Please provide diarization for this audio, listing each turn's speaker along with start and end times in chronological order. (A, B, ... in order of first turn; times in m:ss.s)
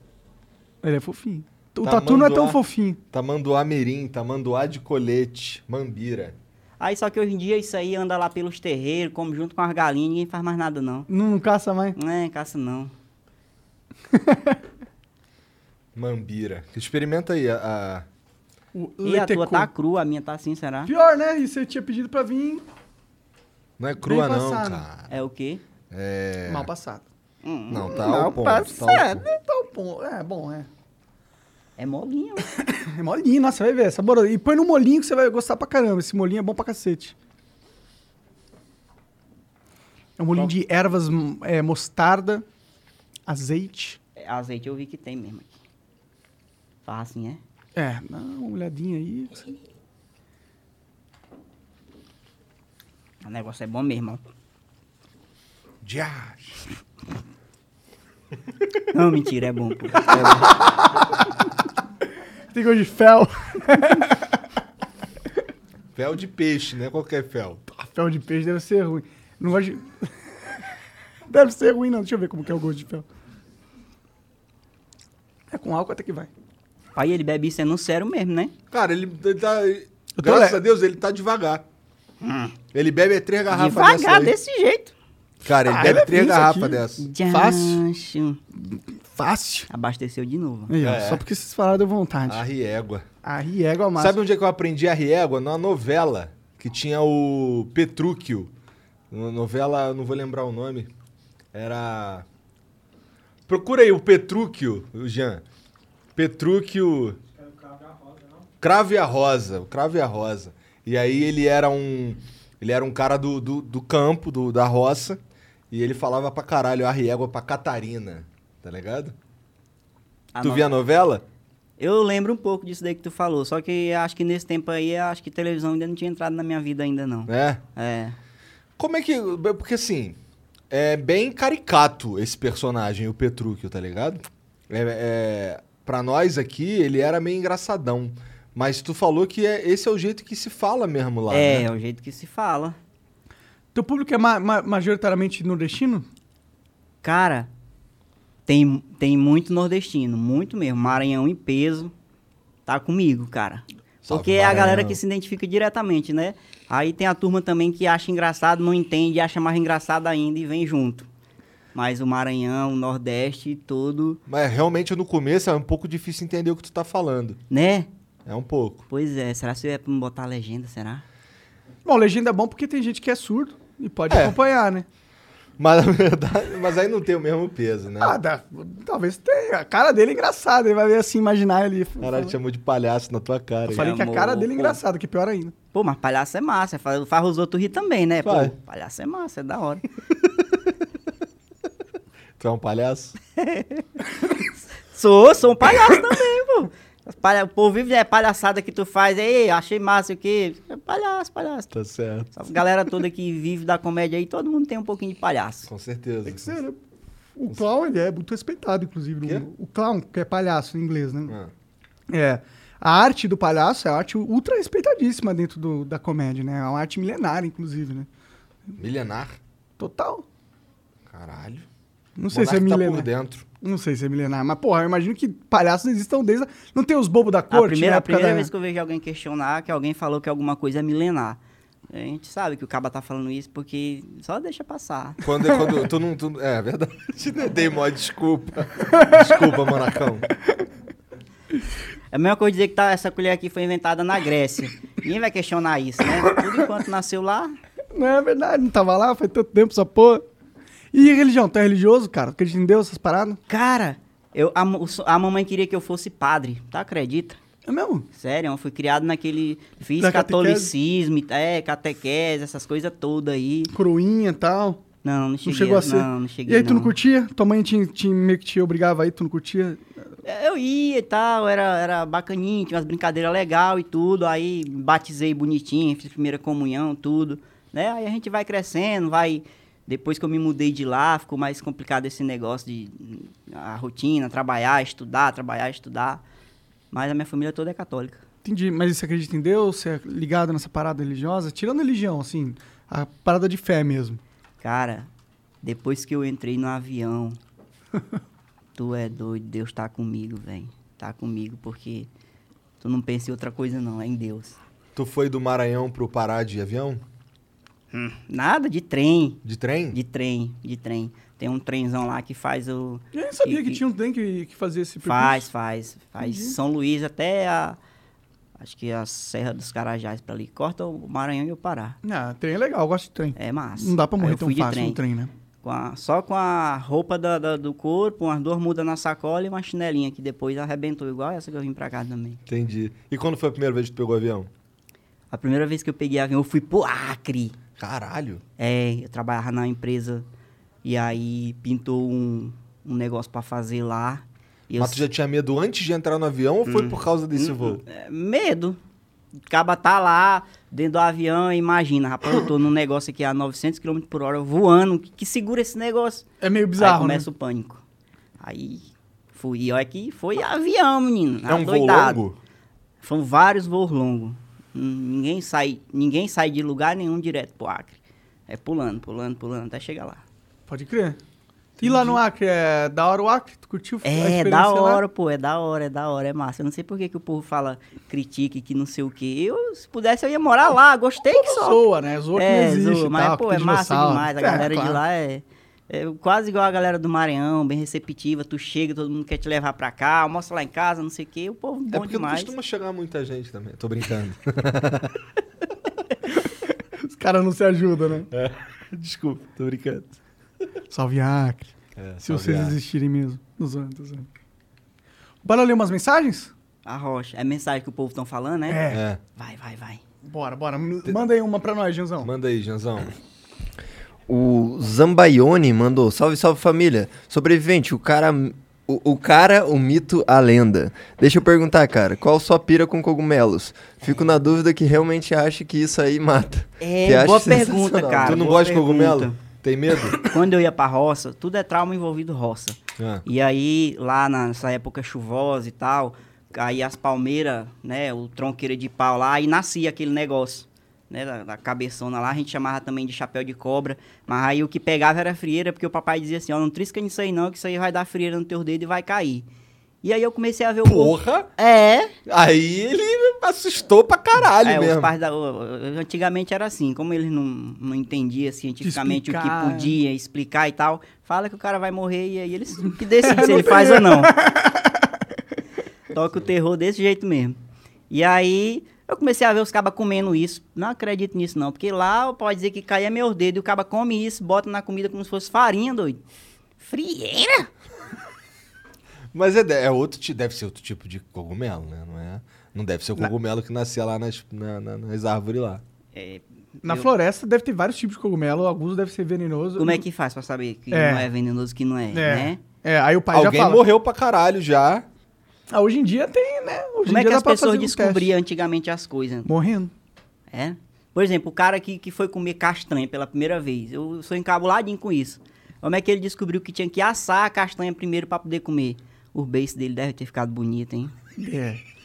0:00.8-0:03.0 A
0:01.8-0:02.6 B
0:03.1-0:06.4 B
0:06.8-0:11.1 C
0:11.1-0:12.0 A
0:12.0-0:12.9 C
0:14.1-0:14.6 A
0:16.0-0:18.0 B
0:18.7-0:19.7 A
0:19.0-0:20.9 C
0:20.9-0:22.6 A
0:23.8-0:25.1 B
0:24.0-0:24.8 A
0:25.1-0:25.6 C
0:25.9-0:26.7 B
0:26.5-0:27.0 A
0:27.4-0:29.3 C
0:27.7-0:29.2 B
0:29.3-0:30.7 A
0:31.8-0:32.5 C
0:32.6-0:37.2 A
0:40.2-0:42.4 A
0:43.3-0:44.0 A
0:44.2-0:45.6 C
0:46.8-0:47.4 C
0:47.8-0:49.5 A
0:53.2-0:54.2 C
0:55.8-0:56.6 B
0:58.9-1:00.1 C
1:00.1-1:00.5 B
1:02.5-1:04.2 A
1:06.0-1:07.6 B
1:07.7-1:10.1 A
1:11.3-1:13.0 A
1:15.5-1:16.3 A
1:17.0-1:18.5 C
1:18.7-1:21.6 B
1:20.2-1:20.6 A
1:22.2-1:22.6 C
1:22.7-1:24.4 B
1:23.5-1:24.9 C
1:25.4-1:27.1 B
1:25.5-1:27.8 A
1:27.0-1:28.4 C
1:28.6-1:29.7 A
1:29.7-1:30.7 C
1:30.7-1:32.4 A
1:30.8-1:31.2 B
1:32.3-1:33.1 B
1:33.2-1:34.2 A
1:34.0-1:38.5 B
1:39.1-1:40.9 B
1:41.5-1:42.3 B
1:43.5-1:45.4 B
1:46.2-1:47.2 B
1:48.6-1:55.2 B
1:55.7-1:59.2 B
2:00.3-2:00.8 C
2:00.4-2:01.2 B
2:01.8-2:08.2 C
2:07.3-2:07.6 B
2:08.8-2:10.2 B
2:10.7-2:21.7 B
2:21.3-2:22.8 C
2:23.7-2:26.1 A
2:27.0-2:27.5 C
2:28.5-2:31.9 C
2:32.7-2:41.1 C
2:34.1-2:35.0 B
2:41.7-2:44.2 C
2:44.3-2:47.4 B
2:47.5-2:47.9 C
2:48.3-2:48.9 B
2:48.9-2:51.0 C
2:51.8-2:54.9 A
2:54.1-2:54.4 B
2:55.6-2:58.2 B
2:58.0-3:02.4 A
3:02.0-3:03.9 B
3:03.7-3:05.5 A
3:03.7-3:04.8 C
3:05.7-3:09.8 C
3:08.2-3:08.5 B
3:12.4-3:13.2 B
3:13.4-3:13.9 C
3:14.9-3:21.7 C
3:21.7-3:22.3 B
3:22.3-3:25.7 C
3:25.7-3:26.6 B
3:26.2-3:26.8 A
3:27.4-3:31.4 A
3:32.1-3:38.1 A
3:38.8-3:39.4 B
3:39.8-3:40.2 A
3:41.1-3:41.7 B
3:42.2-3:43.1 A
3:42.3-3:43.5 B
3:43.6-3:48.5 A
3:47.5-3:51.4 C
3:51.9-3:55.2 C
3:55.2-4:00.3 B
4:02.1-4:07.6 C
4:07.9-4:10.2 A
4:10.9-4:13.4 A
4:13.5-4:17.4 C
4:17.7-4:18.1 A
4:18.1-4:23.7 C
4:20.0-4:20.7 A
4:23.7-4:24.8 A
4:25.0-4:26.9 C
4:25.4-4:29.8 A
4:30.2-4:46.2 C
4:46.9-4:48.2 C
4:48.4-4:54.2 A
4:54.6-4:55.1 C
4:55.6-4:57.4 C
4:58.8-5:02.1 C
5:02.8-5:04.6 C
5:05.0-5:07.0 B
5:07.9-5:13.8 C
5:09.4-5:10.0 B
5:13.1-5:15.5 A
5:15.0-5:17.8 C
5:16.2-5:16.6 A
5:18.6-5:22.0 C
5:22.0-5:25.3 A
5:23.4-5:25.0 C
5:25.6-5:32.4 C
5:32.5-5:34.5 B
5:35.3-5:37.6 C
5:37.8-5:38.4 B
5:38.6-5:40.3 C
5:40.8-5:45.0 C
5:44.8-5:47.8 B
5:46.7-5:48.8 C
5:49.5-5:56.3 C
5:56.4-5:57.3 A
5:56.8-5:57.8 C
5:58.4-6:02.2 C
6:01.5-6:02.4 B
6:03.0-6:08.0 C
6:08.5-6:10.2 C
6:10.7-6:11.2 A
6:11.8-6:15.0 A
6:11.8-6:12.1 C
6:14.0-6:21.8 C
6:21.3-6:25.0 A
6:22.4-6:32.5 C
6:31.9-6:35.2 B
6:37.0-6:38.3 A
6:38.3-6:40.2 B
6:40.9-6:44.3 A
6:42.0-6:42.8 B
6:45.4-6:46.5 A
6:46.8-6:48.8 C
6:48.7-6:49.0 A
6:48.9-6:49.2 B
6:49.4-6:50.0 C
6:50.2-6:52.3 A
6:52.2-6:53.2 B
6:54.3-7:08.4 D
7:06.8-7:09.4 C
7:08.2-7:10.2 B
7:10.2-7:29.5 C
7:13.0-7:13.2 B
7:30.0-7:32.1 C
7:30.8-7:31.5 B
7:32.3-7:35.1 B
7:34.6-7:44.3 C
7:38.8-7:40.0 A
7:43.0-7:45.0 A
7:46.1-7:47.6 C
7:48.1-7:56.2 C
7:56.8-7:57.7 C
7:59.3-8:05.8 B
8:06.2-8:07.1 C
8:06.8-8:10.0 A
8:09.8-8:12.6 C
8:10.9-8:11.3 A
8:12.1-8:13.8 A
8:13.3-8:15.1 B
8:15.7-8:18.4 A
8:17.1-8:19.5 C
8:19.5-8:19.9 A
8:20.5-8:31.1 C
8:31.4-8:31.8 A